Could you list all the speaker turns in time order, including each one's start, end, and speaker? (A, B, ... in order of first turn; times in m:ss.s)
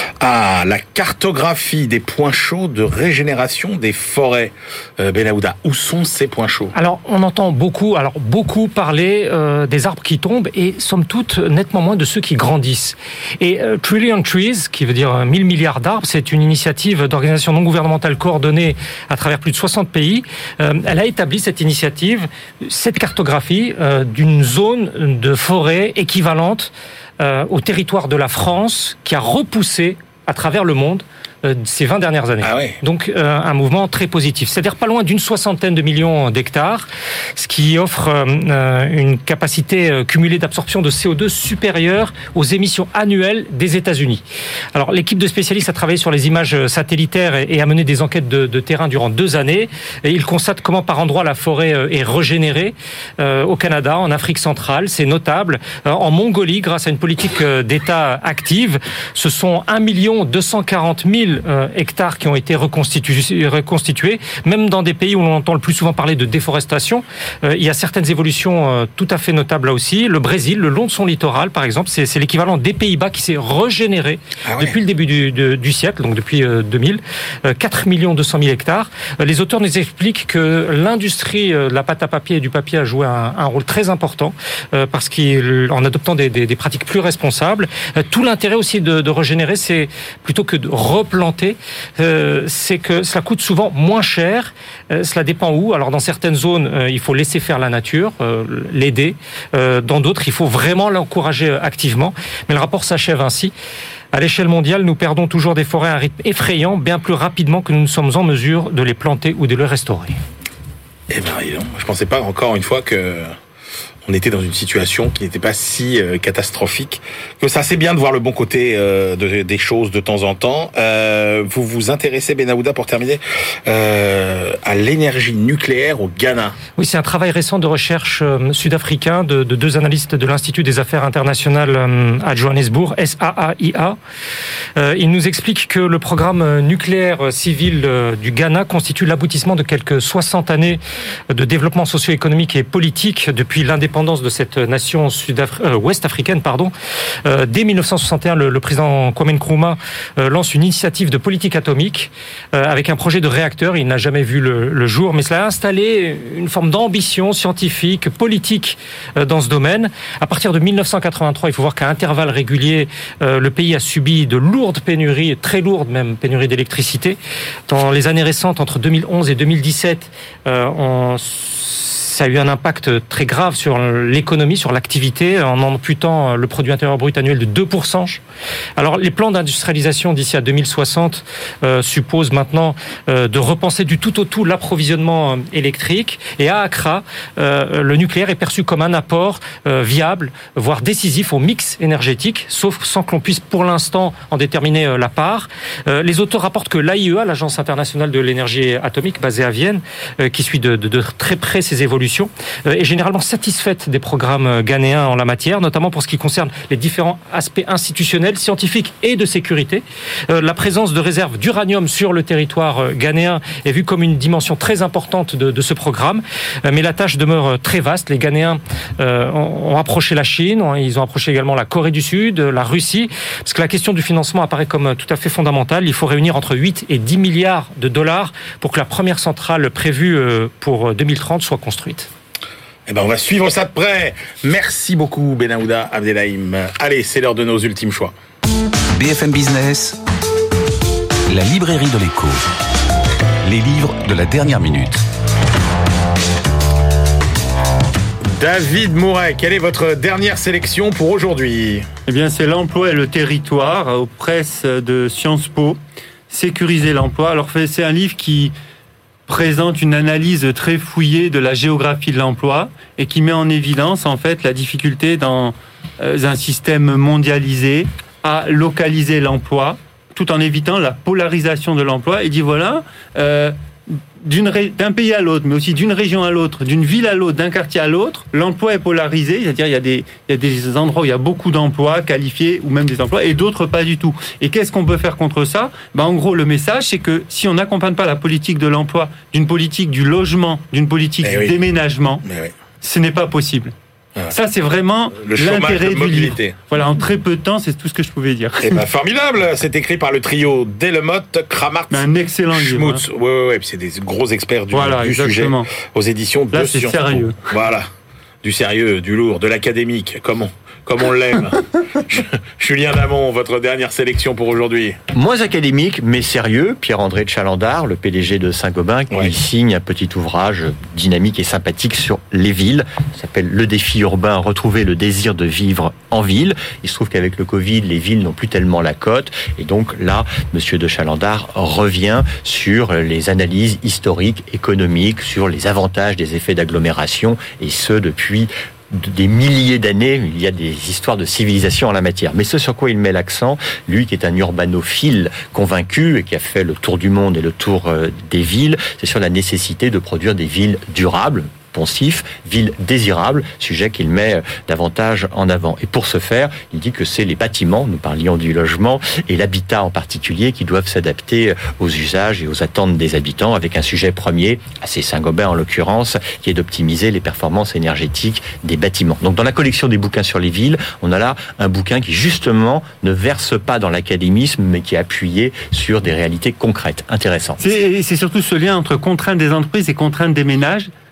0:00.2-0:06.7 A
0:06.8-0:44.2 B
0:32.4-0:32.8 A
0:44.8-1:43.5 B
1:14.5-1:14.8 A
1:44.1-1:50.2 B
1:51.1-1:53.3 A
1:54.1-2:06.6 A
2:06.8-2:14.0 B
2:14.8-2:26.7 B
2:27.2-2:58.2 B
2:58.8-3:52.1 B
3:52.9-3:58.1 A
3:58.9-4:00.0 C
4:01.3-4:02.5 C
4:03.4-4:05.0 C
4:08.3-4:11.9 A
4:12.1-4:15.8 D
4:16.3-4:18.5 D
4:19.3-4:52.2 D
4:51.2-4:51.6 A
4:52.2-4:52.5 A
4:52.8-4:53.7 D
4:54.3-4:58.8 D
4:55.2-4:56.6 A
4:58.6-5:07.9 A
5:01.9-5:03.0 D
5:04.7-5:05.7 D
5:06.5-5:07.4 D
5:08.4-5:15.0 A
5:15.1-6:17.7 E
6:17.6-6:20.9 D